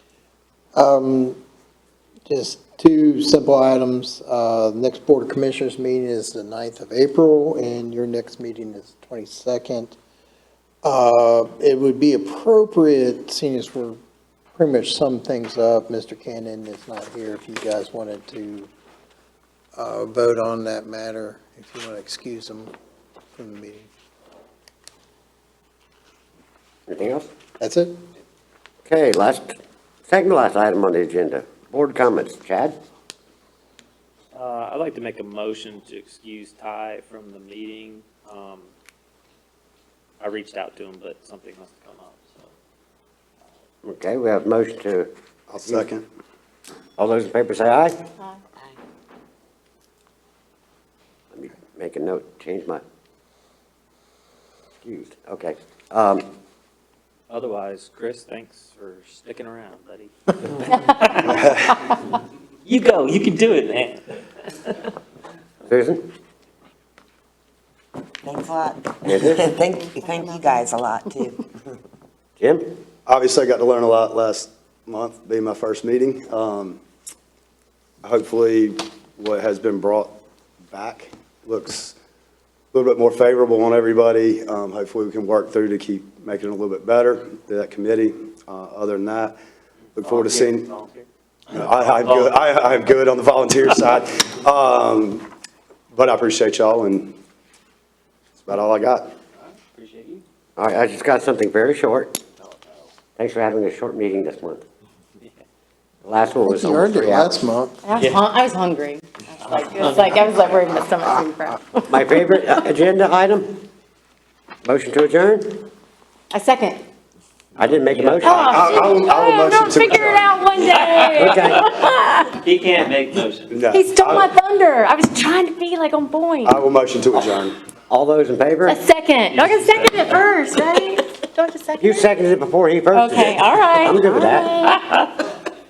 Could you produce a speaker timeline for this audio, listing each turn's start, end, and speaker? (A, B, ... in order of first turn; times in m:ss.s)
0:00.8-0:01.4 A
0:02.3-0:10.0 A
0:10.8-0:14.0 A
0:14.6-0:18.7 A
0:19.8-0:22.7 A
0:23.4-0:23.9 A
0:26.9-0:27.3 B
0:27.6-0:27.9 A
0:28.9-0:32.8 B
0:34.4-0:38.7 C
0:40.2-0:42.5 C
0:43.8-0:45.1 B
0:45.5-0:46.0 D
0:47.0-0:48.0 B
0:51.3-0:52.8 B
0:54.8-0:56.2 B
0:57.3-1:01.4 C
1:00.7-1:01.3 E
1:02.7-1:04.0 C
1:05.7-1:06.0 B
1:08.2-1:11.4 F
1:09.0-1:09.4 B
1:12.4-1:12.7 B
1:13.1-1:16.8 D
1:18.0-1:20.2 D
1:20.7-1:22.0 D
1:22.7-1:29.4 D
1:30.0-1:30.7 D
1:30.0-1:32.4 C
1:31.5-1:35.3 D
1:35.9-1:37.2 D
1:38.4-1:39.1 D
1:39.7-1:40.2 C
1:40.6-1:42.2 B
1:43.2-1:44.6 B
1:46.0-1:47.4 B
1:46.4-1:47.8 A
1:47.8-1:51.9 E
1:48.0-1:48.2 C
1:49.4-1:50.6 C
1:51.9-1:53.6 B
1:54.6-1:55.7 B
1:56.3-1:56.8 E
1:57.6-1:58.8 B
1:57.9-1:58.5 C
1:58.2-2:02.4 E
1:58.5-2:00.4 D
2:00.8-2:01.7 C
2:01.1-2:01.8 B
2:02.4-2:03.6 C
2:03.5-2:04.3 D
2:03.7-2:06.6 E
2:06.4-2:07.6 D
2:07.9-2:08.8 B
2:08.7-2:12.1 E
2:09.3-2:10.3 C
2:11.8-2:14.8 B
2:12.9-2:15.1 E